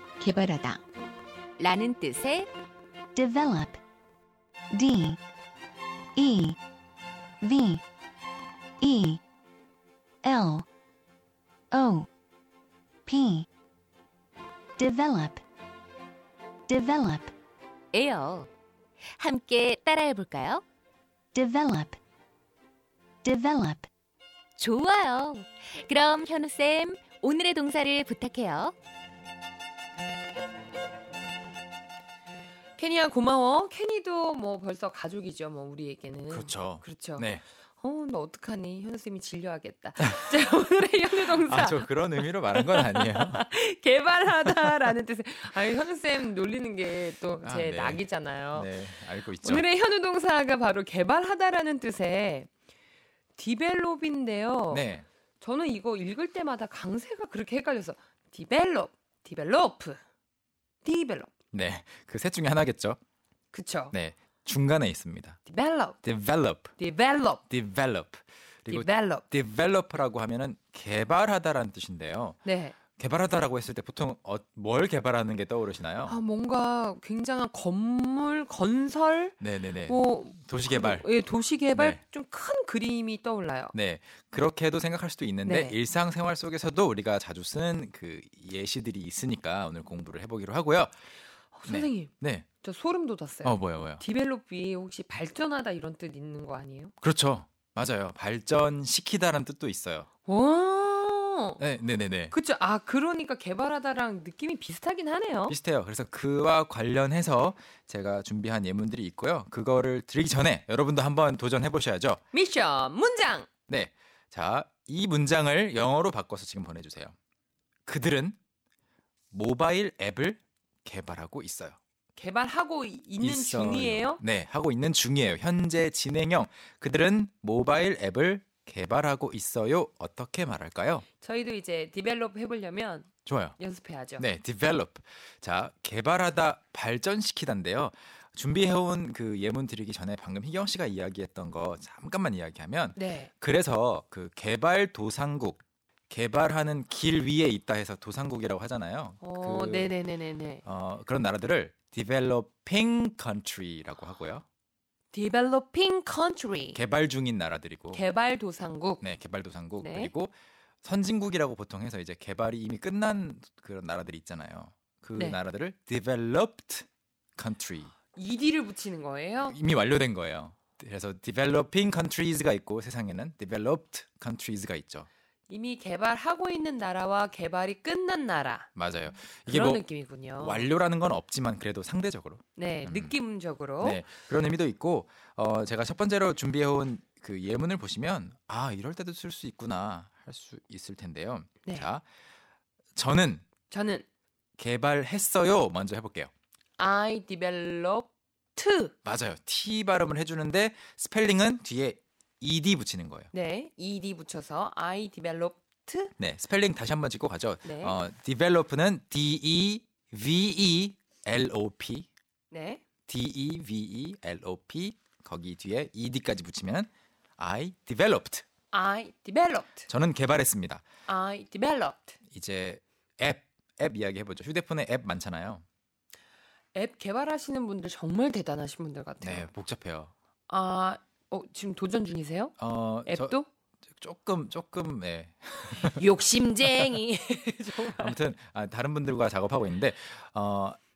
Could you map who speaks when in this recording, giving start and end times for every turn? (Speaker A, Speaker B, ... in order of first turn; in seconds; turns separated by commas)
Speaker A: 0.2-0.8, Speaker A: 1.6-2.5, Speaker B: 3.1-3.8, Speaker B: 4.7-5.2, Speaker B: 6.2-6.6, Speaker B: 7.4-7.8, Speaker B: 8.8-9.2, Speaker B: 10.2-10.7, Speaker B: 11.7-12.1, Speaker B: 13.1-13.5, Speaker B: 14.8-15.4, Speaker B: 16.7-17.3, Speaker A: 17.9-18.5, Speaker A: 19.1-20.6, Speaker B: 21.3-22.0, Speaker B: 23.2-23.9, Speaker A: 24.6-28.7, Speaker C: 32.8-37.3, Speaker D: 36.3-37.4, Speaker C: 37.8-41.9, Speaker D: 41.3-43.4, Speaker C: 42.5-48.7, Speaker D: 47.4-49.7, Speaker C: 49.4-52.5, Speaker C: 53.4-54.9, Speaker D: 54.7-55.0, Speaker C: 55.4-60.0, Speaker C: 60.8-61.3, Speaker D: 61.5-63.0, Speaker C: 63.5-63.9, Speaker D: 63.9-65.4, Speaker C: 65.4-66.0, Speaker D: 66.0-66.7, Speaker C: 66.8-67.4, Speaker D: 67.5-72.4, Speaker C: 68.7-69.2, Speaker C: 72.4-72.7, Speaker D: 73.0-76.2, Speaker C: 76.0-79.3, Speaker D: 79.4-81.1, Speaker C: 79.9-83.7, Speaker D: 81.7-82.0, Speaker D: 83.7-90.9, Speaker C: 85.4-85.8, Speaker C: 91.5-96.9, Speaker D: 91.7-92.5, Speaker D: 93.4-94.0, Speaker D: 97.0-100.1, Speaker C: 100.2-101.6, Speaker D: 101.6-102.3, Speaker C: 102.3-105.6, Speaker D: 105.5-112.2, Speaker C: 112.3-113.5, Speaker D: 113.7-117.1, Speaker D: 117.8-118.3, Speaker D: 119.3-121.8, Speaker C: 122.2-124.2, Speaker D: 123.2-131.0, Speaker C: 131.2-134.2, Speaker D: 133.2-133.6, Speaker D: 134.2-149.9, Speaker C: 142.9-143.3, Speaker C: 149.2-150.6, Speaker D: 150.6-154.4, Speaker C: 155.1-156.8, Speaker D: 156.7-158.0, Speaker C: 157.9-159.0, Speaker D: 159.0-166.8, Speaker C: 159.8-160.1, Speaker D: 167.4-167.9, Speaker C: 168.1-169.6, Speaker D: 169.4-175.1, Speaker C: 175.5-178.7, Speaker D: 178.7-179.8, Speaker C: 179.4-180.7, Speaker D: 180.4-183.2, Speaker C: 182.6-184.0, Speaker D: 183.8-192.0, Speaker C: 191.6-191.9, Speaker D: 192.9-193.4, Speaker C: 193.7-194.0, Speaker D: 194.6-196.3, Speaker C: 196.8-198.9, Speaker D: 199.0-203.3, Speaker C: 203.3-206.1, Speaker D: 206.2-212.1, Speaker C: 207.6-208.0, Speaker C: 212.5-212.8, Speaker D: 213.1-218.4, Speaker C: 218.7-219.9, Speaker D: 219.9-220.8, Speaker C: 221.1-222.2, Speaker D: 222.3-225.6, Speaker C: 226.7-229.5, Speaker D: 229.2-230.1, Speaker C: 230.5-233.5, Speaker D: 232.6-233.4, Speaker D: 234.0-236.1, Speaker C: 235.9-238.1, Speaker D: 237.9-240.8